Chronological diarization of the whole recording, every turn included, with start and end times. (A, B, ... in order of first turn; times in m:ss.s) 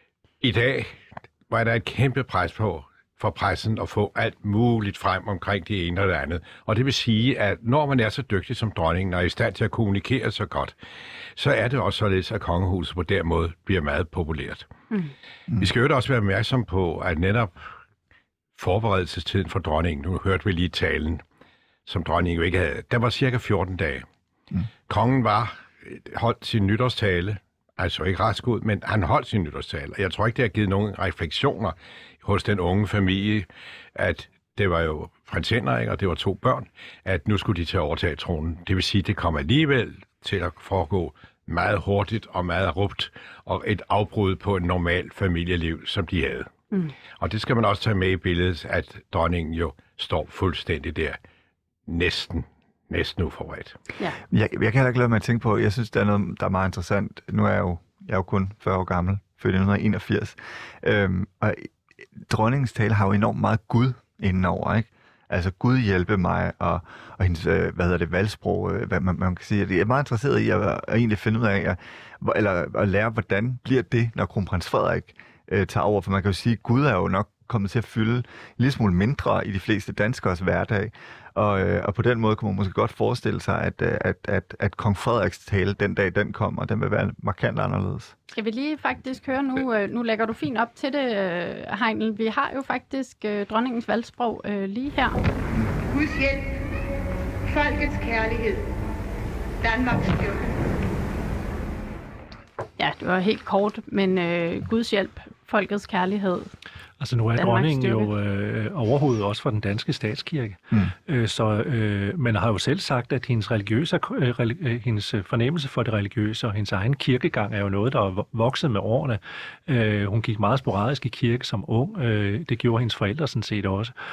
0:00.4-0:10.7 A
0:11.4-0:14.7 A
0:15.6-0:17.6 A
0:18.6-0:21.2 A
0:21.8-0:24.0 A
0:24.9-0:46.5 A
0:47.2-0:51.2 A
0:51.9-0:53.8 A
0:54.3-1:28.1 B
1:28.3-1:35.2 C
1:35.8-1:36.7 D
1:37.4-1:38.6 D
1:39.6-1:40.6 D
1:42.8-1:46.5 C
1:47.0-2:03.9 E
1:47.4-1:48.1 C